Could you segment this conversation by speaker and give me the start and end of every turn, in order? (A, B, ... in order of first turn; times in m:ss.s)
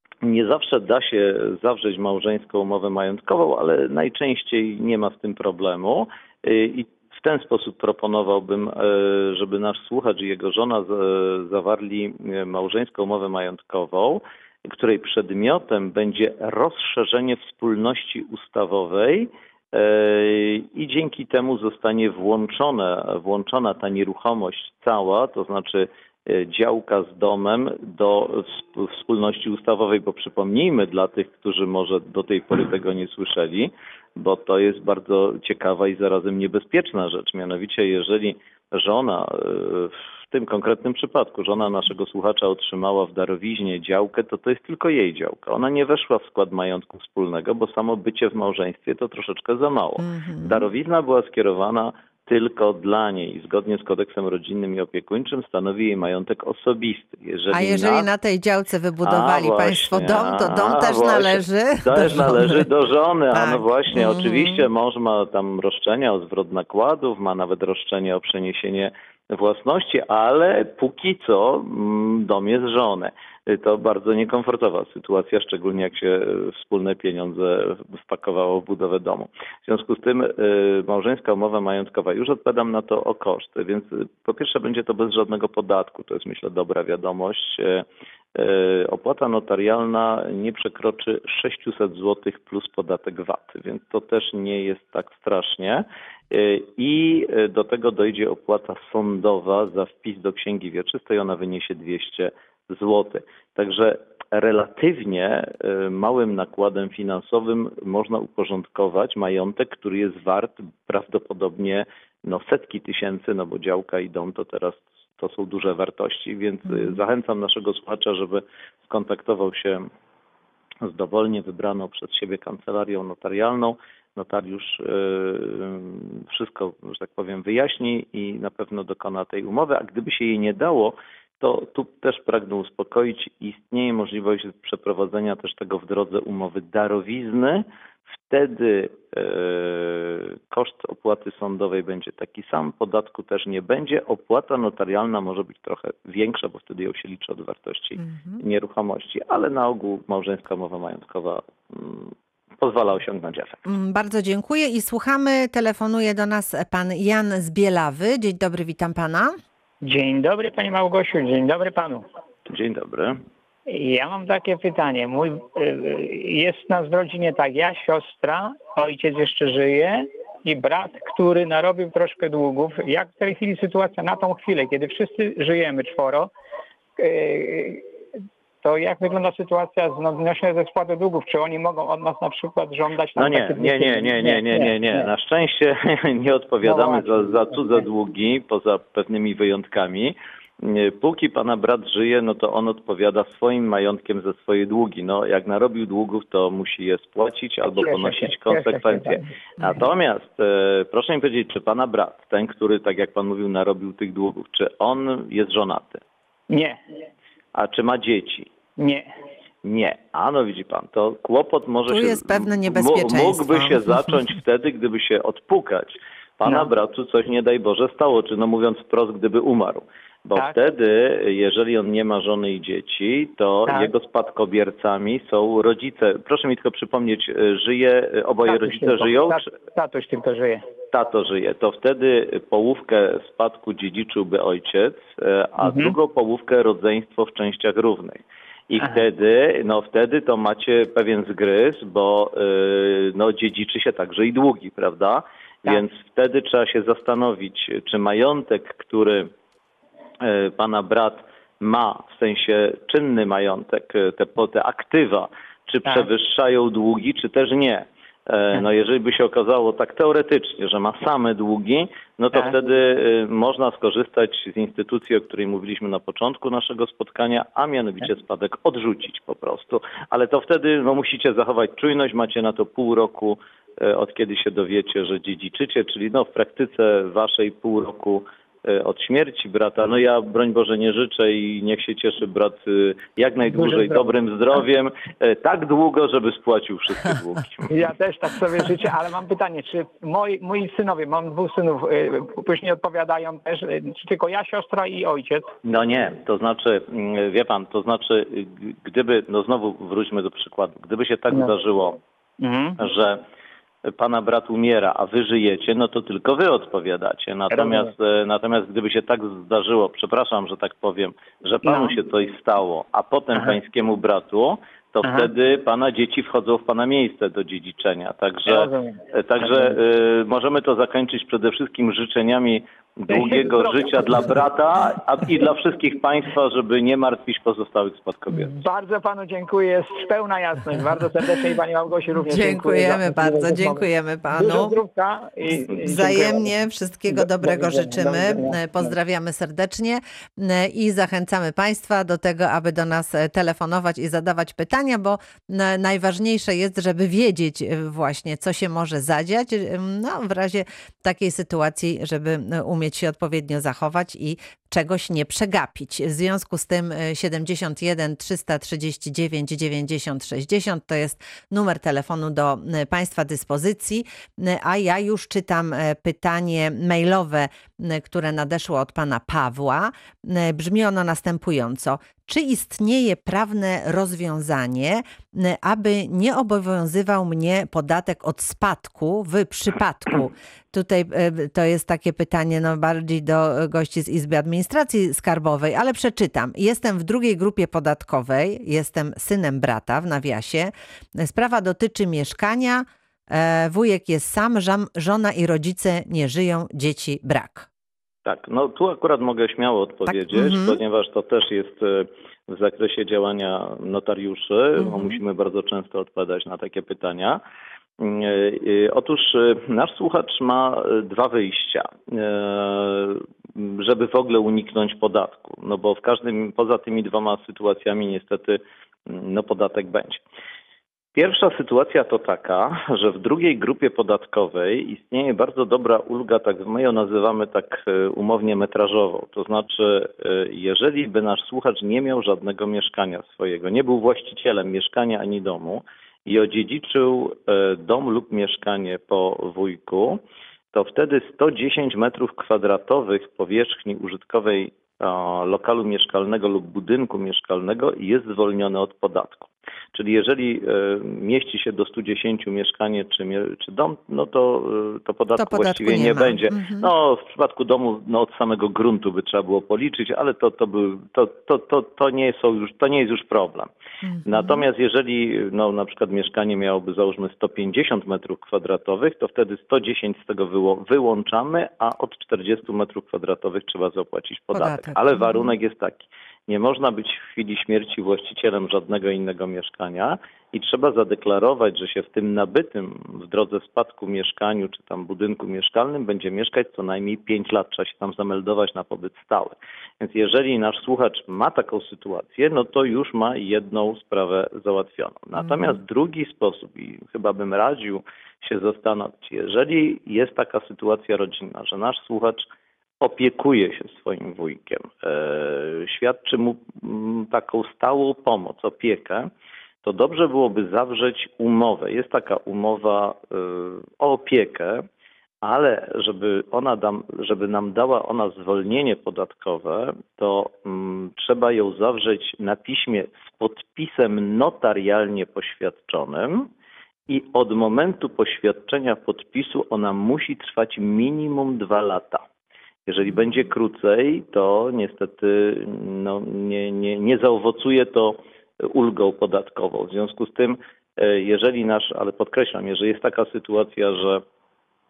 0:00.2-0:58.1 A
0:50.0-0:50.7 B
0:57.5-1:02.7 B
0:59.0-1:59.9 A
1:03.3-1:04.6 B
2:00.8-2:17.7 A
2:18.3-2:33.6 A
2:28.0-2:28.4 B
2:33.7-2:39.4 B
2:39.8-2:42.0 C
2:42.5-2:43.2 A
2:43.7-2:56.3 C
2:57.0-2:57.9 C
2:58.6-3:05.1 C
3:03.2-3:26.0 A
3:06.6-3:07.8 C
3:17.8-3:19.2 C
3:26.5-3:26.8 C
3:27.6-3:28.5 A
3:28.8-3:29.1 C
3:29.6-3:49.4 A
3:31.9-3:33.8 B
3:48.5-3:50.6 C
3:50.9-4:09.3 A
3:55.6-3:56.0 C
4:10.2-4:47.7 A
4:43.5-4:44.1 C
4:47.7-4:55.5 C
4:55.6-5:02.0 A
5:02.4-5:02.8 C
5:02.8-5:03.2 A
5:03.9-5:28.6 A
5:07.5-5:07.9 C
5:11.6-5:12.0 C
5:15.0-5:15.3 C
5:18.5-5:19.7 C
5:23.1-5:24.4 C
5:28.6-5:36.6 C
5:32.2-5:34.8 B
5:35.6-6:37.7 B
5:37.1-5:38.9 C
6:38.2-6:47.4 A
6:40.1-6:40.8 B
6:44.8-6:45.2 B
6:48.0-7:00.2 A
7:01.2-7:20.2 A
7:20.7-7:43.7 A
7:35.4-7:36.9 B
7:44.0-7:44.6 B
7:44.2-8:22.5 A
7:54.5-7:55.5 B
8:23.0-8:29.3 A
8:29.8-8:34.8 A
8:35.4-8:46.5 A
8:47.1-8:52.2 A
8:52.9-9:04.2 A